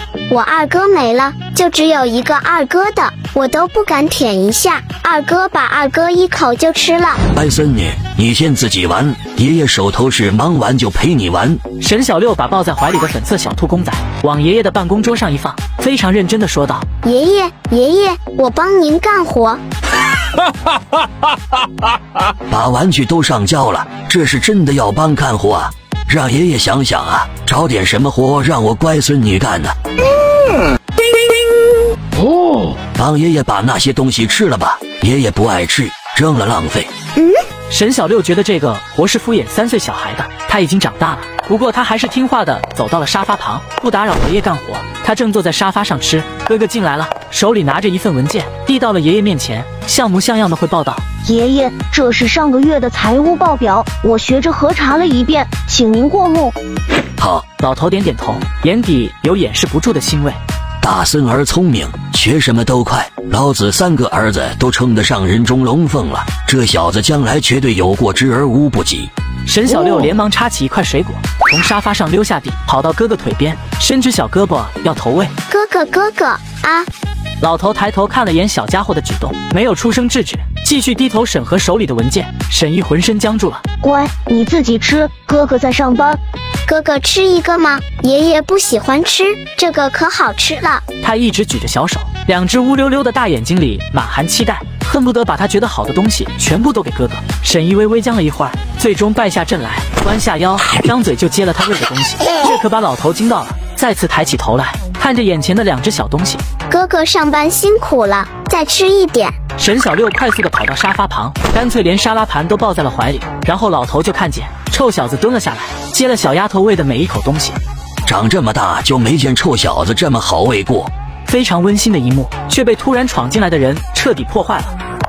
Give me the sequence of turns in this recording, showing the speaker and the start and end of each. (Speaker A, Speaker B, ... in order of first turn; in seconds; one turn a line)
Speaker A: 0.3-7.2
Speaker B: 7.3-11.6
Speaker C: 11.8-16.9
Speaker A: 17.0-19.6
Speaker B: 22.5-29.7
Speaker B: 33.0-36.9
Speaker C: 37.7-51.0
Speaker D: 51.2-56.5
Speaker B: 57.2-57.4
Speaker C: 57.6-60.4
Speaker B: 60.8-69.1
Speaker C: 69.5-75.3
Speaker A: 75.5-76.9
Speaker C: 77.4-83.6
Speaker D: 83.8-86.2
Speaker A: 86.7-90.8
Speaker C: 91.0-106.4
Speaker A: 106.7-109.3
Speaker C: 109.6-117.6
Speaker B: 118.0-120.9
Speaker C: 121.3-124.7